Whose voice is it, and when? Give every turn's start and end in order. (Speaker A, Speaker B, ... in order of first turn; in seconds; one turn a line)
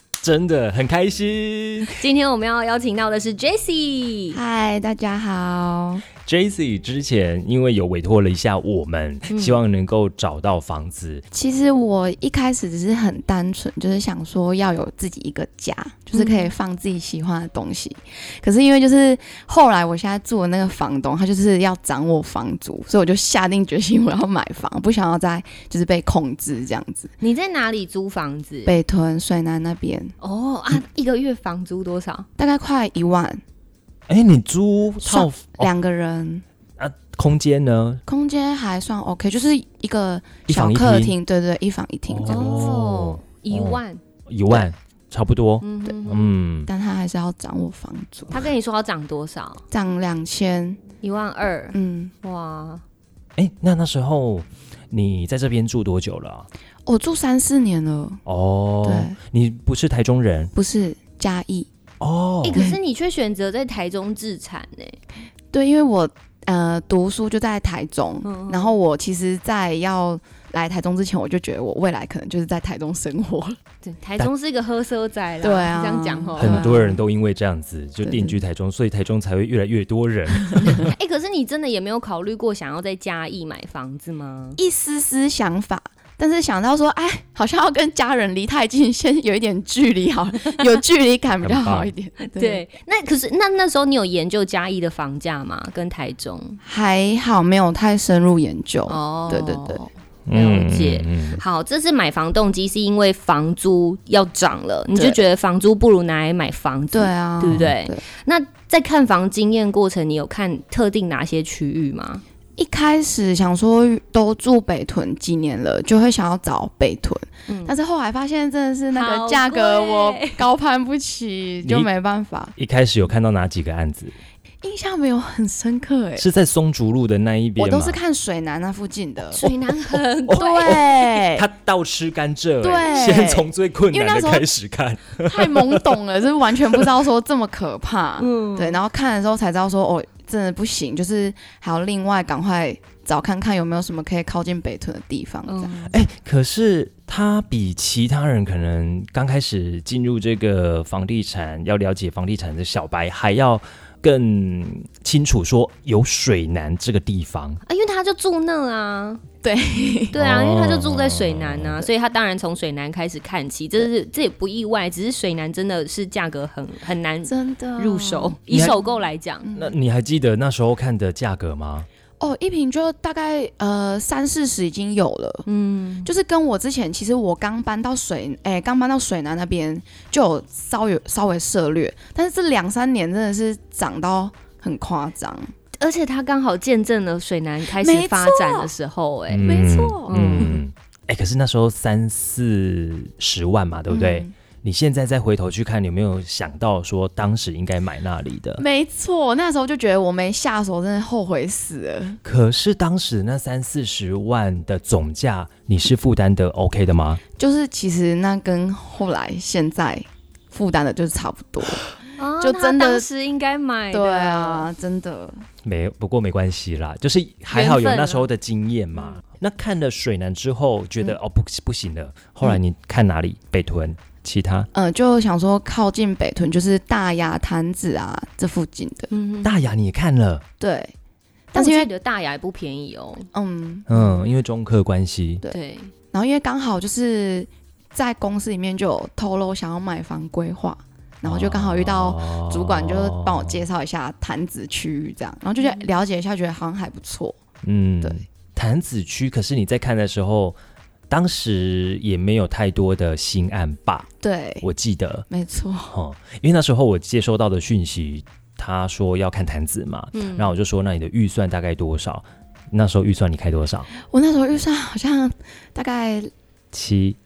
Speaker A: 0.2-2.1
Speaker B: 2.0-4.4
Speaker C: 4.3-6.0
Speaker A: 6.2-11.2
Speaker B: 9.3-9.6
Speaker C: 11.3-27.1
Speaker B: 16.1-16.5
Speaker B: 27.2-28.8
Speaker C: 28.6-30.1
Speaker B: 30.2-32.3
Speaker C: 32.4-33.4
Speaker A: 34.1-35.7
Speaker C: 35.0-36.4
Speaker A: 36.8-38.0
Speaker C: 38.1-42.6
Speaker A: 40.5-41.1
Speaker A: 42.1-46.7
Speaker B: 42.3-44.0
Speaker B: 45.6-46.4
Speaker C: 46.7-48.5
Speaker B: 48.3-49.6
Speaker C: 49.7-50.8
Speaker B: 51.0-52.8
Speaker C: 51.7-52.1
Speaker A: 53.4-56.5
Speaker C: 56.9-58.2
Speaker A: 58.3-60.5
Speaker C: 58.8-59.2
Speaker C: 60.5-61.7
Speaker A: 62.0-62.7
Speaker B: 62.4-65.0
Speaker C: 62.5-62.8
Speaker C: 65.5-73.6
Speaker B: 68.2-68.8
Speaker B: 73.8-76.8
Speaker C: 75.4-77.1
Speaker A: 76.4-80.9
Speaker C: 78.0-78.4
Speaker C: 80.5-80.8
Speaker B: 80.8-84.6
Speaker C: 84.6-92.7
Speaker A: 91.4-91.9
Speaker B: 92.2-96.6
Speaker C: 96.6-99.8
Speaker B: 98.9-112.2
Speaker A: 100.3-101.4
Speaker C: 105.0-105.3
Speaker C: 106.9-108.1
Speaker A: 107.4-107.7
Speaker C: 112.6-122.5
Speaker B: 117.5-117.8
Speaker B: 118.9-120.4
Speaker A: 121.6-121.9
Speaker A: 122.6-124.2
Speaker C: 124.6-126.3
Speaker A: 126.2-128.0
Speaker C: 127.6-129.4
Speaker B: 129.3-130.8
Speaker A: 129.4-135.9
Speaker C: 130.4-131.5
Speaker C: 132.6-134.5
Speaker C: 135.2-145.8
Speaker B: 138.2-138.8
Speaker B: 145.5-145.9
Speaker A: 145.8-157.6
Speaker B: 157.7-159.2
Speaker C: 159.4-160.2
Speaker A: 160.1-161.9
Speaker B: 160.1-169.5
Speaker C: 167.2-168.6
Speaker A: 168.5-168.8
Speaker C: 169.4-169.8
Speaker A: 169.5-171.9
Speaker C: 172.2-175.5
Speaker B: 175.5-176.1
Speaker C: 176.1-185.5
Speaker B: 185.8-190.6
Speaker C: 187.7-188.7
Speaker A: 189.3-198.6
Speaker C: 189.4-190.6
Speaker C: 193.9-194.3
Speaker C: 198.6-202.2
Speaker A: 202.2-207.2
Speaker C: 207.4-211.8
Speaker B: 212.2-214.7
Speaker C: 212.4-213.1
Speaker C: 213.9-215.4
Speaker A: 215.7-224.7
Speaker B: 217.5-218.3
Speaker C: 224.7-229.1
Speaker B: 229.1-229.5
Speaker A: 229.4-230.4
Speaker C: 230.6-230.9
Speaker C: 231.5-231.9
Speaker B: 231.6-233.3
Speaker C: 233.3-234.2
Speaker A: 233.9-235.4
Speaker B: 235.5-235.9
Speaker C: 236.1-247.4
Speaker A: 241.2-243.6
Speaker B: 245.6-245.9
Speaker A: 247.6-250.6
Speaker A: 251.1-254.1
Speaker C: 254.2-254.7
Speaker A: 254.6-255.3
Speaker C: 255.3-255.9
Speaker A: 255.9-263.9
Speaker B: 260.1-260.5
Speaker C: 264.0-266.3
Speaker A: 266.7-267.2